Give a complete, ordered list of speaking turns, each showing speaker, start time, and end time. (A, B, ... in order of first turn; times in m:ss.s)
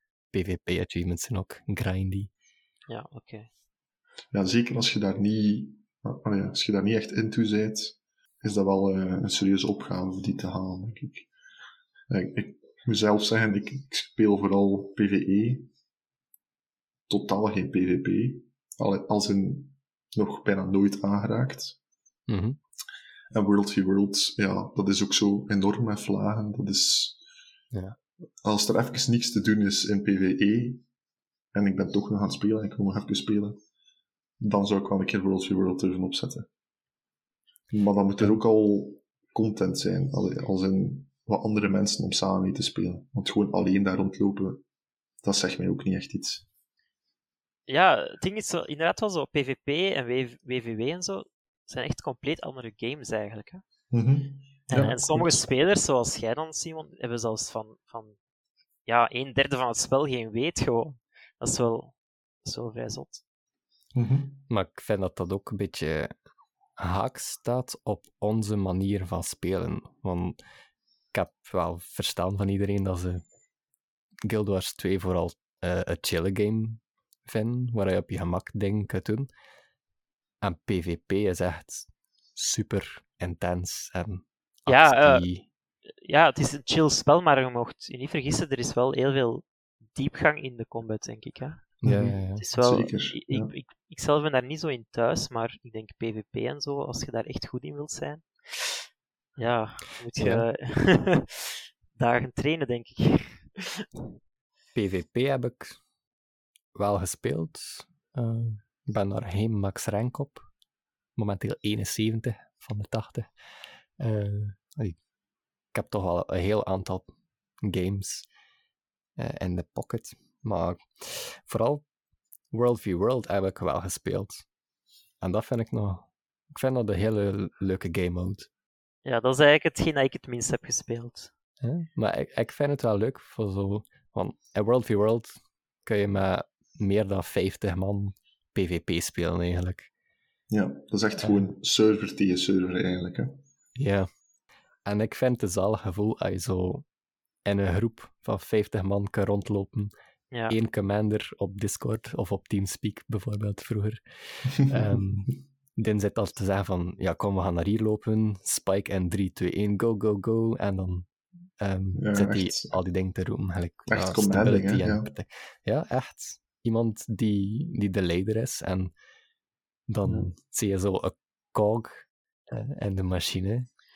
0:00.3-0:02.3 A
0:02.9-0:03.5 B
0:04.3-0:11.3 C
0:12.1-0:15.7 C
0:17.1-0:21.8 C
0:22.3-0:22.6 A
0:23.3-0:27.2 C
0:28.4-0:30.8 C
0:31.5-0:33.6 C
0:34.4-0:36.5 C
0:37.7-0:44.6 C
0:45.2-0:46.5 C
0:47.7-0:53.6 B
0:53.9-0:55.4 C
0:54.7-0:58.2 B
0:58.9-1:03.2 B
1:03.9-1:04.4 C
1:04.5-1:06.1 A
1:06.8-1:10.4 A
1:11.1-1:13.2 A
1:14.2-1:19.3 A
1:20.4-1:25.4 A
1:24.7-1:25.2 B
1:26.0-1:31.8 B
1:31.8-1:33.5 C
1:31.8-1:32.4 A
1:32.4-1:38.8 B
1:39.4-1:43.9 B
1:40.2-1:40.4 A
1:44.8-1:45.8 A
1:46.8-1:50.5 A
1:51.2-1:53.3 A
1:54.0-1:55.0 A
1:55.7-1:57.1 A
1:57.6-1:58.3 A
1:59.2-2:01.8 A
2:02.5-2:04.4 A
2:05.2-2:08.5 A
2:09.0-2:11.3 B
2:11.6-2:15.3 A
2:15.8-2:19.9 A
2:20.5-2:23.3 C
2:23.8-2:24.1 A
2:24.9-2:26.8 A
2:27.4-2:29.9 A
2:30.5-2:41.1 A
2:41.6-2:48.9 A
2:42.0-2:42.8 C
2:43.9-2:45.1 C
2:49.9-2:53.7 A